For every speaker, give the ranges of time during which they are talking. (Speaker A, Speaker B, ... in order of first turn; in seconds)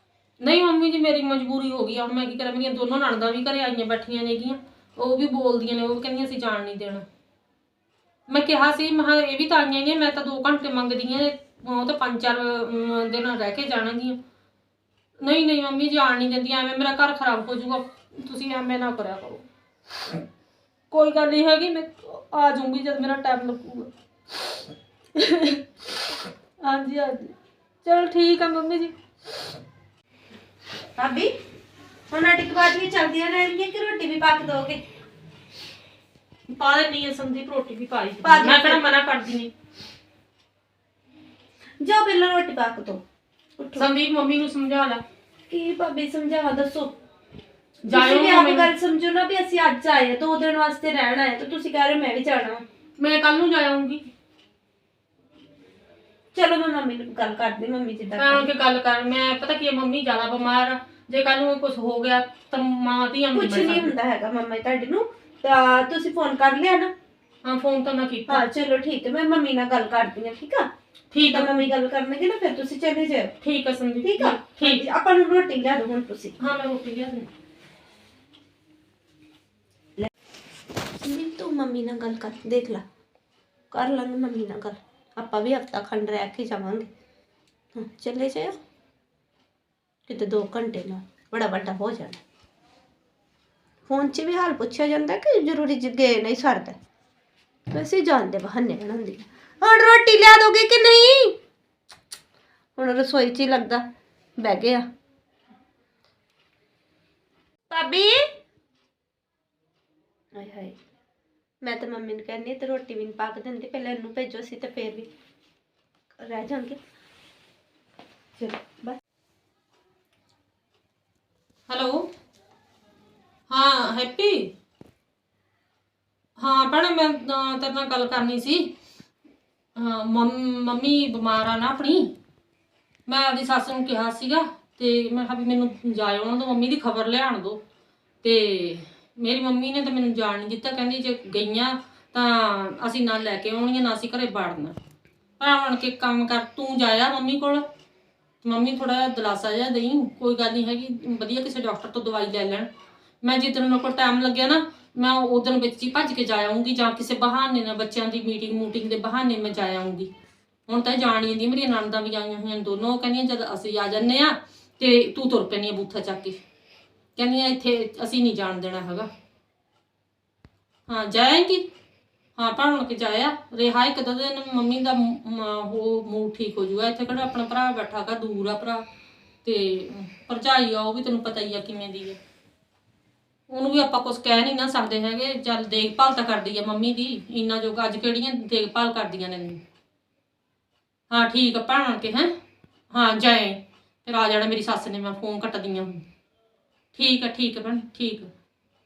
Speaker A: 0.4-7.0, 8.3-14.2, 15.2-19.4, 20.9-23.9, 25.2-25.6, 26.6-27.3, 27.9-28.9, 36.5-39.5, 43.8-45.0, 47.9-48.7, 53.0-54.0, 58.2-63.9, 67.4-68.4, 71.1-71.7, 73.4-74.8, 76.4-77.3, 121.7-122.1, 123.5-124.5, 126.4-128.7, 129.8-132.1, 133.1-137.6, 138.2-144.8, 145.4-147.6, 148.4-152.7, 153.2-160.1, 160.7-166.4, 167.2-169.1, 170.9-171.7, 172.4-178.8, 179.4-182.2, 183.5-189.6, 191.1-192.3, 192.9-196.0, 196.9-198.3
Speaker B: 31.0-31.3, 32.1-34.8, 38.2-38.8, 41.8-43.0, 43.6-43.9, 45.5-46.9, 47.9-52.6, 56.4-58.5, 63.3-66.9, 68.3-70.7, 71.3-73.4, 74.0-76.4, 81.0-82.8, 83.7-86.9, 87.8-88.5, 90.1-92.2, 93.9-96.8, 97.7-101.3, 102.8-103.8, 104.4-104.8, 107.7-108.3, 110.4-110.8, 111.6-115.1, 116.2-116.8, 118.4-119.0